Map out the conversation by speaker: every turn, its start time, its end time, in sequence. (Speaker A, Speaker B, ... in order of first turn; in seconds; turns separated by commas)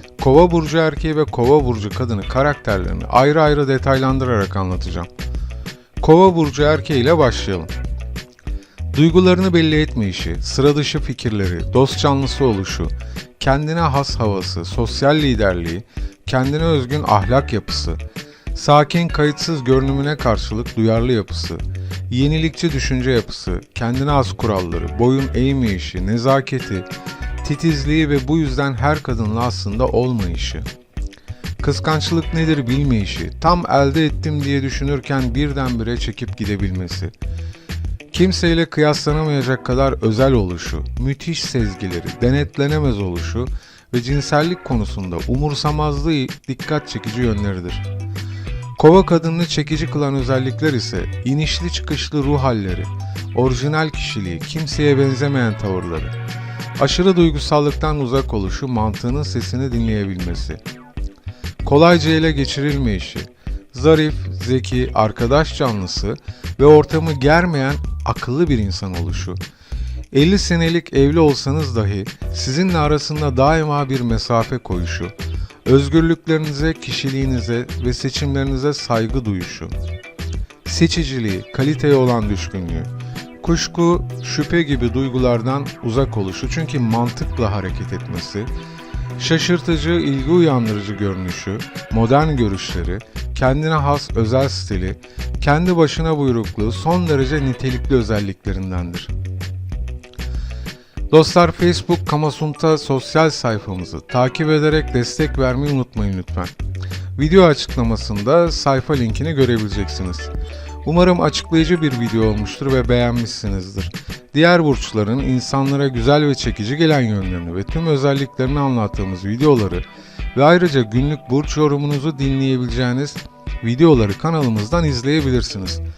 Speaker A: 0.2-5.1, Speaker A: 6.0-7.7, Speaker A: 8.9-18.0, Speaker A: 18.5-26.9, Speaker A: 27.4-30.7, Speaker A: 31.6-37.1, Speaker A: 38.1-47.9, Speaker A: 48.8-56.1, Speaker A: 56.8-60.6, Speaker A: 61.6-69.4, Speaker A: 70.1-75.1, Speaker A: 75.6-79.7, Speaker A: 80.6-82.9, Speaker A: 83.4-88.5, Speaker A: 89.2-99.1, Speaker A: 101.1-106.5, Speaker A: 107.2-110.3, Speaker A: 110.8-125.8